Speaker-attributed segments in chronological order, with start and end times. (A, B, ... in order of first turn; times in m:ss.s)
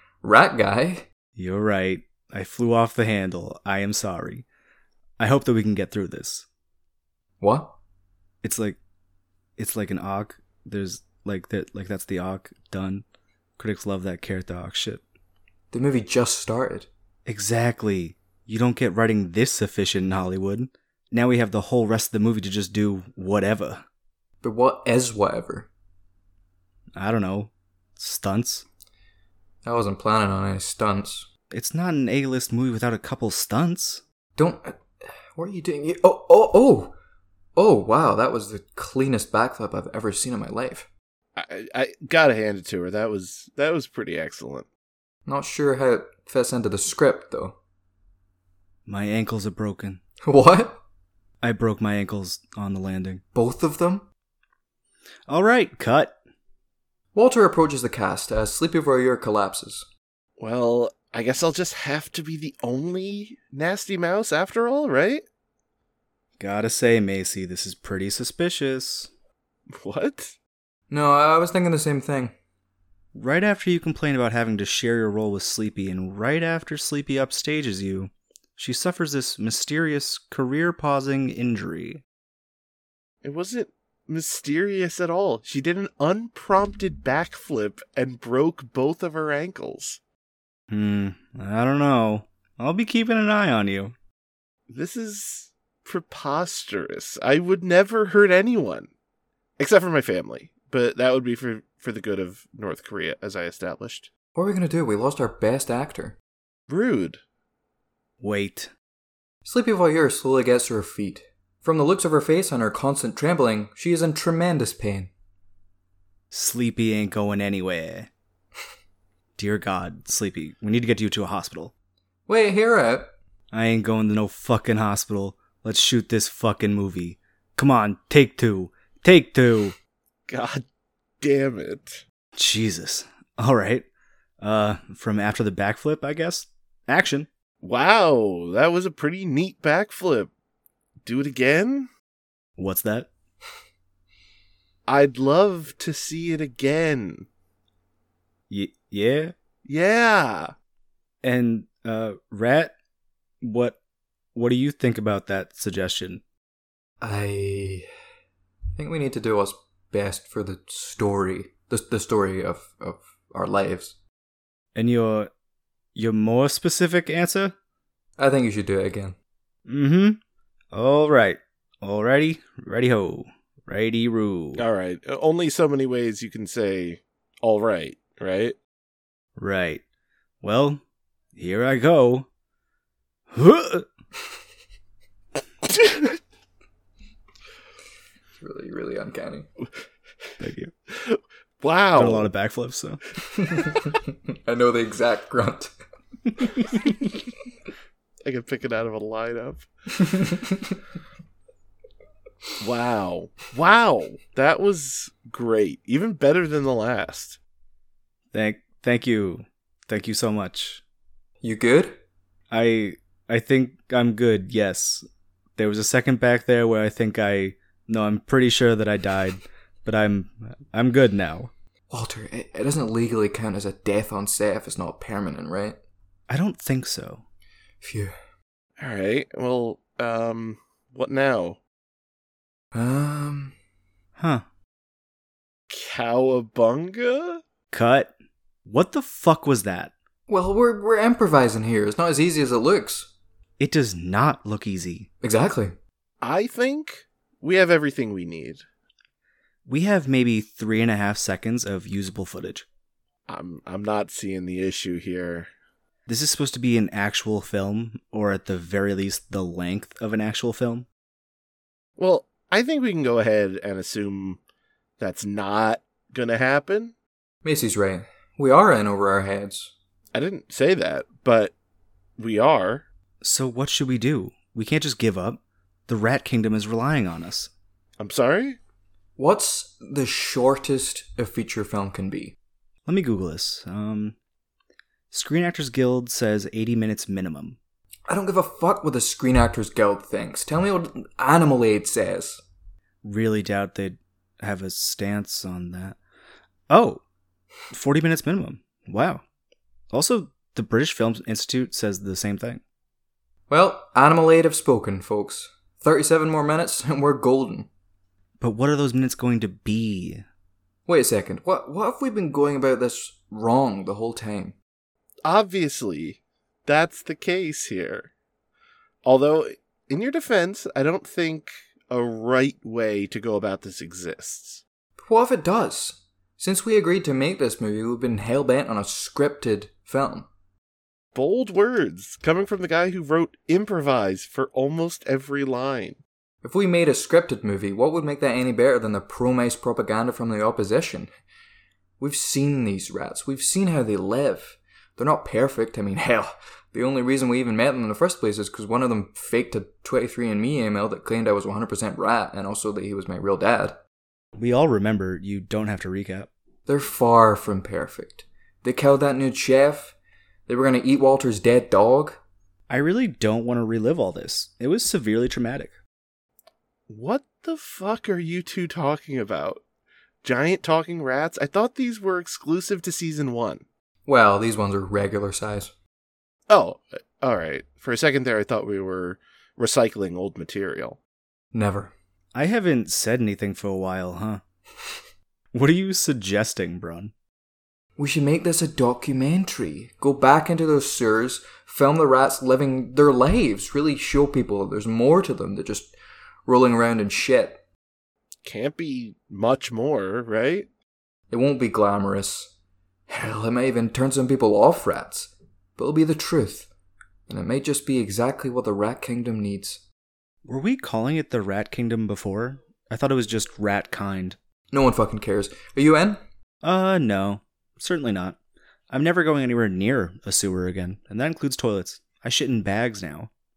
0:00.2-0:01.0 A
0:01.4-0:04.4 B
0:05.2-0:06.4 B
0:07.4-0:07.7 A
0:08.4-0:08.8 B
0:09.6-0:13.0 B
0:13.6-0:15.0 B
0:15.7-0:16.9 A
0:17.2-0:23.8 B
0:24.4-0:25.7 A
0:27.0-0:28.6 B
0:29.6-0:31.3 A
0:31.5-0:34.0 B
0:34.4-0:36.9 A
0:37.6-0:40.9 A
0:41.4-0:44.7 C
0:45.2-0:47.6 A
0:48.8-0:50.0 B
0:50.2-0:50.8 A
0:51.4-0:53.2 B
0:53.3-0:54.0 A
0:55.3-0:56.1 B
0:57.1-0:59.9 A
1:00.4-1:05.2 C
1:06.4-1:09.1 B
1:09.7-1:10.4 C
1:10.9-1:12.3 A
1:13.1-1:22.0 B
1:23.2-1:30.0 C
1:30.7-1:33.9 B
1:34.7-1:38.9 C
1:39.6-1:44.1 C
1:44.4-1:46.2 A
1:46.7-1:47.2 C
1:48.2-1:48.7 B
1:49.4-1:55.1 A
1:56.3-1:58.1 B
1:59.4-2:01.7 B
2:02.3-2:03.1 A
2:03.5-2:09.8 B
2:10.3-2:10.6 C
2:11.2-2:12.0 C
2:12.3-2:13.8 B
2:14.4-2:17.3 B
2:17.6-2:20.3 C
2:21.0-2:21.9 C
2:22.6-2:23.1 B
2:24.9-2:27.3 C
2:28.5-2:29.3 B
2:29.6-2:30.5 C
2:31.2-2:32.7 B
2:33.4-2:33.8 B
2:34.3-2:36.2 B
2:37.0-2:37.9 A
2:38.8-2:44.0 A
2:44.7-2:45.3 B
2:45.9-2:47.5 B
2:48.2-2:49.1 A
2:49.7-2:50.2 B
2:50.7-2:54.6 B
2:54.6-2:58.6 C
2:59.4-2:59.8 B
3:00.4-3:00.8 B
3:01.3-3:02.3 B
3:03.3-3:03.9 B
3:08.4-3:09.5 A
3:10.4-3:10.7 B
3:10.9-3:12.3 C
3:12.0-3:13.0 B
3:13.3-3:15.7 A
3:18.2-3:19.7 C
3:20.0-3:20.8 A
3:22.6-3:27.4 C
3:28.3-3:30.8 B
3:31.4-3:32.0 A
3:32.5-3:35.0 B
3:35.6-3:41.5 B
3:41.9-3:45.8 A
3:46.3-3:47.2 B
3:47.8-3:48.2 A
3:48.8-3:51.6 C
3:52.7-3:53.5 A
3:54.2-3:54.4 B
3:55.7-3:57.4 C
3:57.7-3:58.1 B
3:58.6-3:59.9 B
4:00.3-4:03.1 A
4:03.6-4:05.1 B
4:05.2-4:05.8 A
4:06.2-4:08.6 C
4:09.6-4:12.6 B
4:13.3-4:15.5 C
4:16.1-4:20.8 B
4:22.0-4:24.4 C
4:25.0-4:26.9 C
4:27.4-4:29.7 A
4:30.1-4:31.5 C
4:32.2-4:32.9 C
4:33.2-4:37.5 B
4:38.0-4:38.6 C
4:39.2-4:42.3 A
4:42.8-4:44.1 B
4:45.1-4:47.6 B
4:48.1-4:52.4 A
4:53.0-4:56.0 B
4:56.7-4:57.0 B
4:57.7-4:59.2 B
4:59.9-5:02.6 B
5:03.5-5:07.7 A
5:08.4-5:10.2 B
5:10.9-5:14.5 A
5:15.2-5:18.1 C
5:19.0-5:24.6 C
5:25.0-5:30.3 A
5:31.1-5:36.0 C
5:36.4-5:41.1 A
5:42.0-5:53.8 A
5:54.4-5:56.3 B
5:56.7-5:59.9 A
6:00.5-6:02.2 A
6:02.7-6:05.7 B
6:06.9-6:09.6 C
6:10.2-6:13.6 C
6:14.0-6:15.7 A
6:16.5-6:21.0 C
6:21.5-6:21.9 A
6:22.3-6:24.4 B
6:25.5-6:27.1 B
6:28.0-6:35.9 A
6:36.4-6:37.6 A
6:38.4-6:40.7 C
6:41.3-6:42.5 A
6:43.1-6:46.7 A
6:47.3-6:49.8 A
6:50.4-6:54.4 B
6:54.7-6:56.2 A
6:56.6-6:58.4 B
6:58.9-7:03.3 B